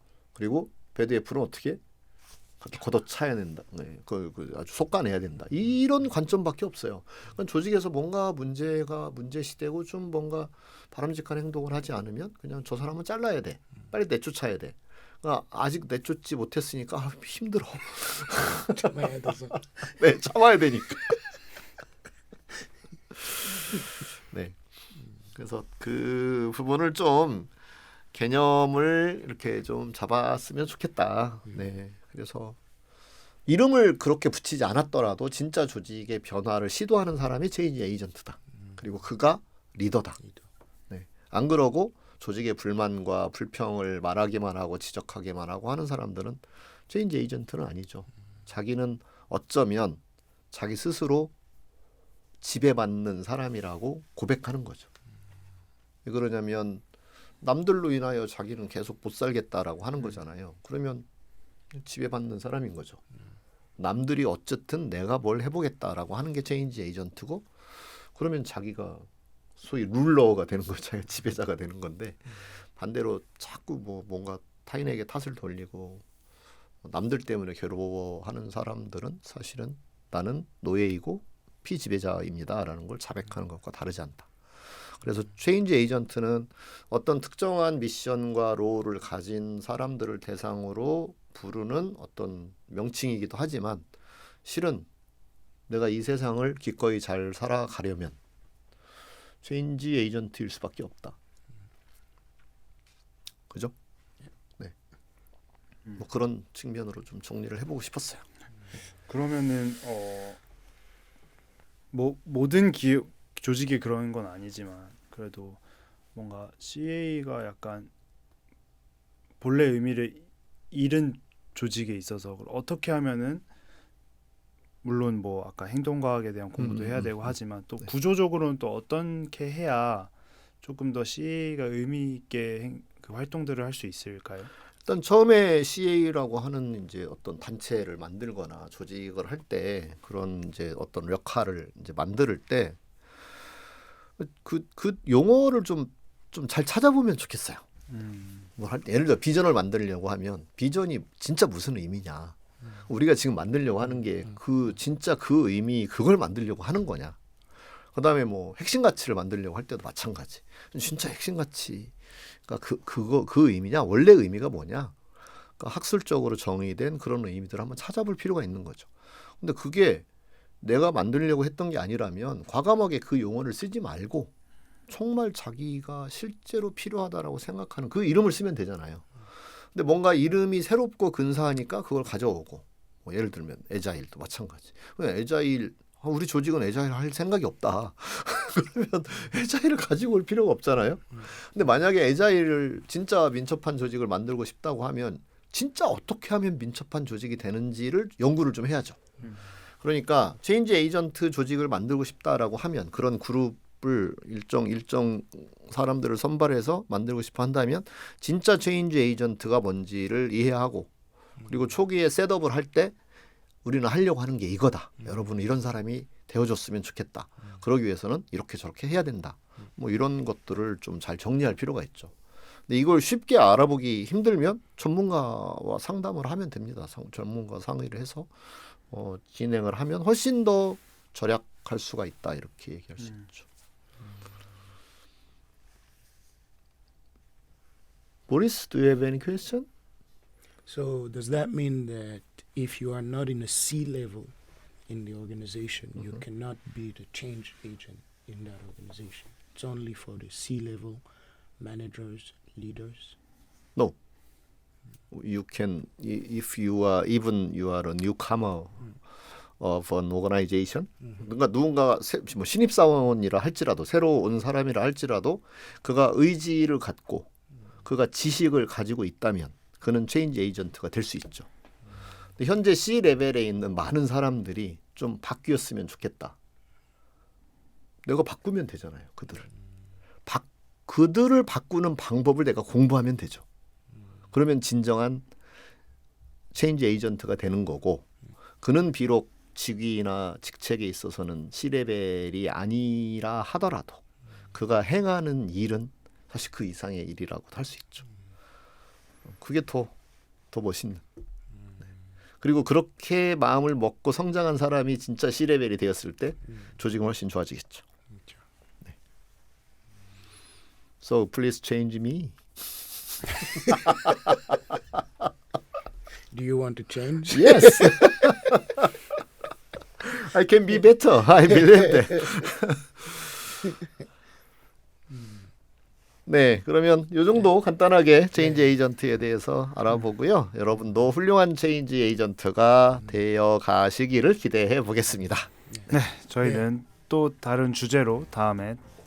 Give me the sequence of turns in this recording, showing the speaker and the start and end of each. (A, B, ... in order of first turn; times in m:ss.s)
0:00.4-0:01.8 A
0:02.6-0:21.2 A
0:18.8-0:19.6 B
0:23.3-0:24.6 A
0:25.4-0:27.5 A
0:28.1-0:32.6 A
0:33.5-0:40.2 A
0:40.9-0:50.0 A
0:50.5-0:51.3 A
0:52.4-0:54.9 A
0:56.1-0:56.8 A
0:57.4-1:01.1 A
1:01.7-1:03.0 A
1:03.8-1:09.1 A
1:09.6-1:16.0 A
1:16.8-1:33.9 A
1:34.4-1:34.9 A
1:35.7-1:38.2 A
1:39.4-1:41.2 A
1:46.0-1:48.2 A
1:49.1-1:50.4 C
1:51.9-1:55.6 C
1:56.2-1:57.9 C
1:59.4-2:03.5 C
2:04.8-2:10.1 C
2:06.6-2:07.3 A
2:10.6-2:14.5 C
2:14.9-2:22.8 A
2:24.2-2:27.6 A
2:27.9-2:28.5 C
2:28.6-2:37.2 A
2:37.9-2:45.0 A
2:45.6-2:50.0 A
2:50.6-2:54.3 A
2:54.9-2:59.1 A
2:59.7-3:19.0 A
3:19.2-3:19.5 C
3:19.8-3:30.9 A
3:31.5-3:33.0 A
3:33.6-3:42.1 A
3:42.7-3:53.4 A
3:53.0-3:53.3 C
3:58.3-3:59.7 A
4:00.7-4:04.4 B
4:04.9-4:11.0 B
4:11.6-4:13.2 B
4:15.1-4:18.9 A
4:19.6-4:27.3 A
4:27.8-4:31.5 A
4:32.4-4:36.4 A
4:38.0-4:39.5 A
4:40.3-4:43.4 A
4:44.3-4:45.2 A
4:46.5-4:48.1 A
4:48.6-4:54.0 A
4:54.5-4:58.1 A
4:59.3-4:59.9 A
5:00.5-5:01.0 A
5:02.4-5:07.8 A
5:11.0-5:12.4 A
5:13.6-5:14.2 A
5:16.3-5:18.3 B
5:17.3-5:18.9 A
5:20.0-5:23.2 A
5:26.3-5:35.5 A
5:35.9-5:38.8 C